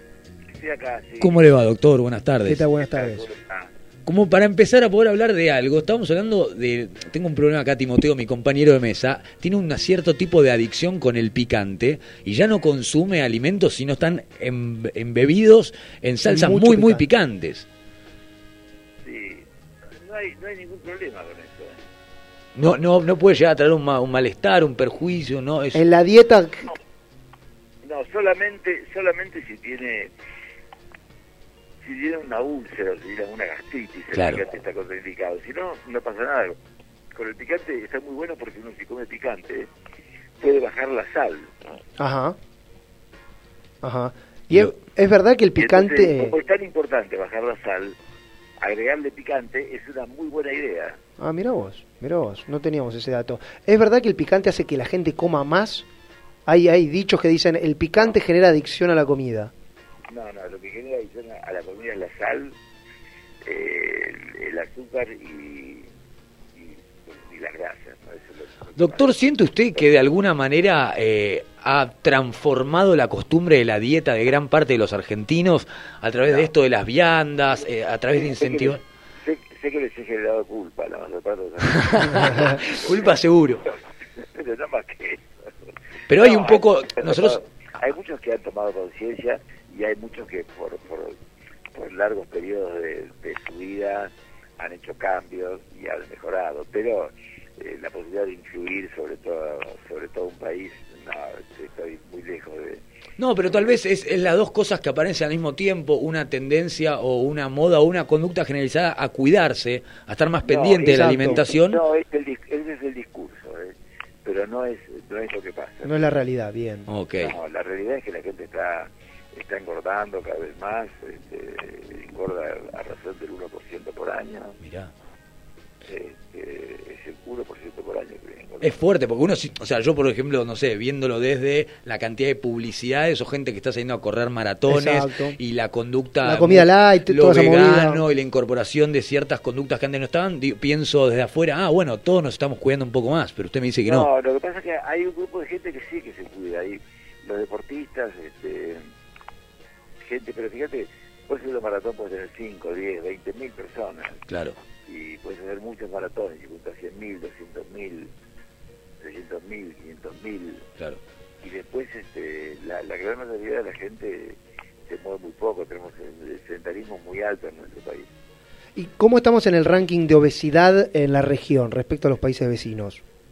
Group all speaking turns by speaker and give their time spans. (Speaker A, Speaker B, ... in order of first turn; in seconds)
Speaker A: 0.5-1.5, 2.8-3.7, 19.0-19.4, 20.0-21.8, 27.8-30.1, 31.8-36.6, 37.1-39.7, 40.4-41.5, 45.5-48.0, 48.6-51.0, 60.1-62.5, 63.4-65.9, 66.5-69.1, 78.2-83.2, 84.3-85.2, 86.1-91.2, 91.7-102.8, 110.4-115.9, 117.2-124.6, 125.8-128.8, 143.8-148.8, 150.1-154.2, 154.8-158.1, 159.0-160.7, 161.4-168.1
Speaker B: 1.2-2.7, 4.0-17.7, 22.5-25.8, 34.1-34.4, 68.8-78.8, 81.7-83.7, 86.1-87.4, 103.2-111.8, 116.9-117.3, 124.6-124.9, 128.6-144.1, 154.3-154.6
Speaker C: 2.4-3.3, 16.2-17.1, 25.7-26.7, 42.0-42.4, 43.8-46.3, 51.2-55.9, 56.5-59.5, 110.8-111.4, 115.8-116.9, 134.7-135.4, 136.2-138.0, 168.8-173.0